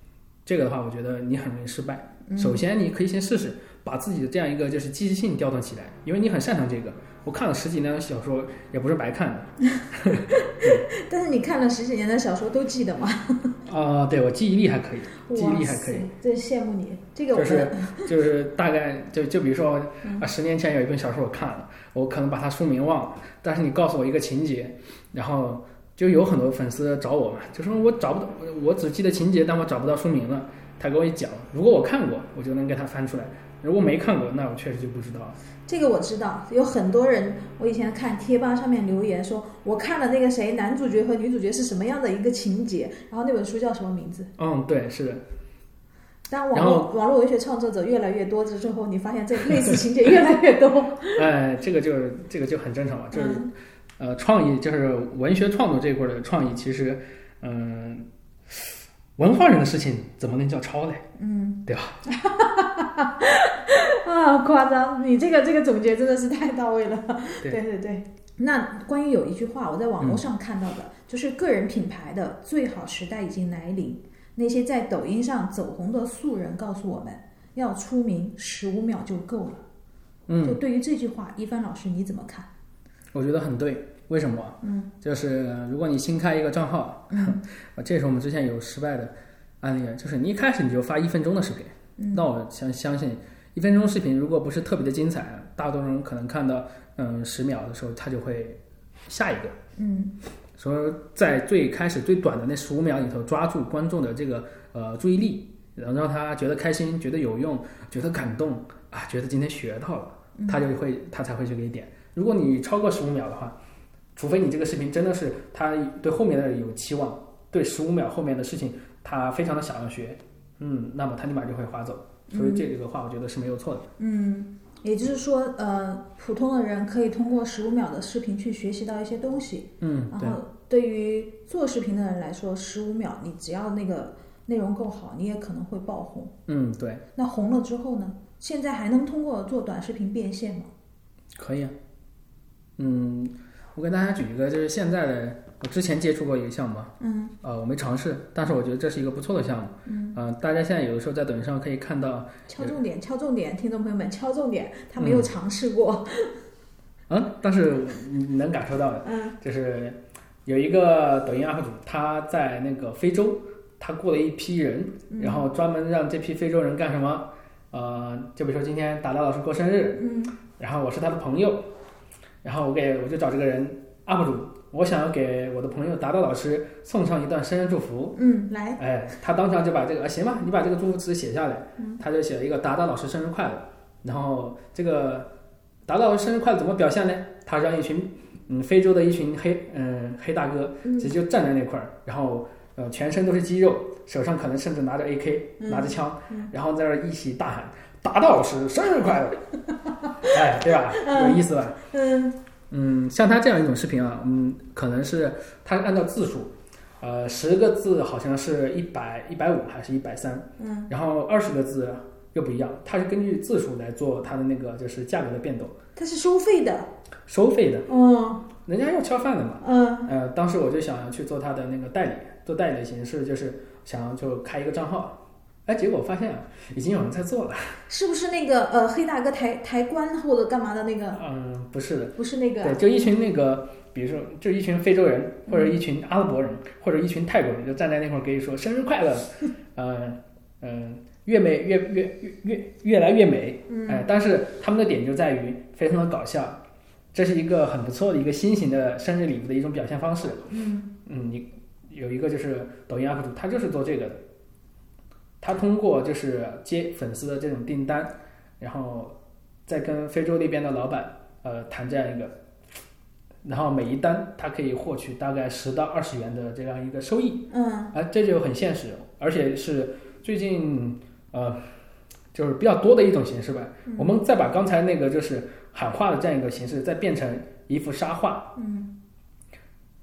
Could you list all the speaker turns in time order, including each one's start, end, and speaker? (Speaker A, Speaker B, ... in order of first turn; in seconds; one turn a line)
Speaker A: 0.5-10.9
Speaker B: 2.3-2.6
Speaker B: 9.8-13.6
Speaker A: 13.7-16.1
Speaker B: 15.2-18.1
Speaker A: 17.3-35.4
Speaker B: 35.7-44.3
Speaker A: 44.4-45.2
Speaker B: 46.3-51.2
Speaker A: 46.5-46.9
Speaker A: 51.1-61.0
Speaker B: 53.1-53.5
Speaker B: 61.2-79.6
Speaker A: 61.7-62.0
Speaker A: 80.3-80.6
Speaker B: 80.4-82.5
Speaker A: 83.1-99.6
Speaker B: 84.6-84.9
Speaker B: 87.1-87.4
Speaker B: 92.0-92.2
Speaker B: 99.8-100.2
Speaker A: 100.6-113.5
Speaker B: 110.4-110.7
Speaker A: 114.2-123.9
Speaker B: 122.3-122.7
Speaker B: 124.0-136.3
Speaker A: 129.8-130.4
Speaker A: 136.5-137.0
Speaker B: 137.2-140.7
Speaker A: 141.4-141.8
Speaker A: 142.8-152.8
Speaker B: 147.0-147.3
Speaker B: 149.9-150.2
Speaker B: 152.5-156.3
Speaker A: 155.0-155.3
Speaker A: 157.1-170.0
Speaker B: 159.0-159.4
Speaker B: 165.1-165.5
Speaker B: 169.9-170.3
Speaker A: 170.6-171.7
Speaker A: 172.4-178.2
Speaker B: 178.2-178.8
Speaker A: 178.8-185.3
Speaker A: 185.9-199.4
Speaker B: 190.8-191.1
Speaker B: 195.6-196.5
Speaker B: 200.2-202.4
Speaker A: 200.2-201.8
Speaker A: 202.7-215.8
Speaker B: 210.6-210.9
Speaker B: 216.0-216.9
Speaker A: 217.3-217.9
Speaker B: 217.9-218.5
Speaker A: 218.6-227.8
Speaker B: 219.6-220.1
Speaker B: 227.9-231.2
Speaker A: 231.1-246.6
Speaker B: 232.2-232.8
Speaker B: 235.5-235.7
Speaker B: 243.7-244.1
Speaker A: 247.1-250.5
Speaker B: 250.5-250.9
Speaker A: 251.1-254.2
Speaker A: 255.4-259.1
Speaker A: 259.7-262.4
Speaker A: 263.4-271.7
Speaker B: 267.5-267.9
Speaker A: 272.3-278.5
Speaker B: 273.9-274.1
Speaker B: 278.6-278.9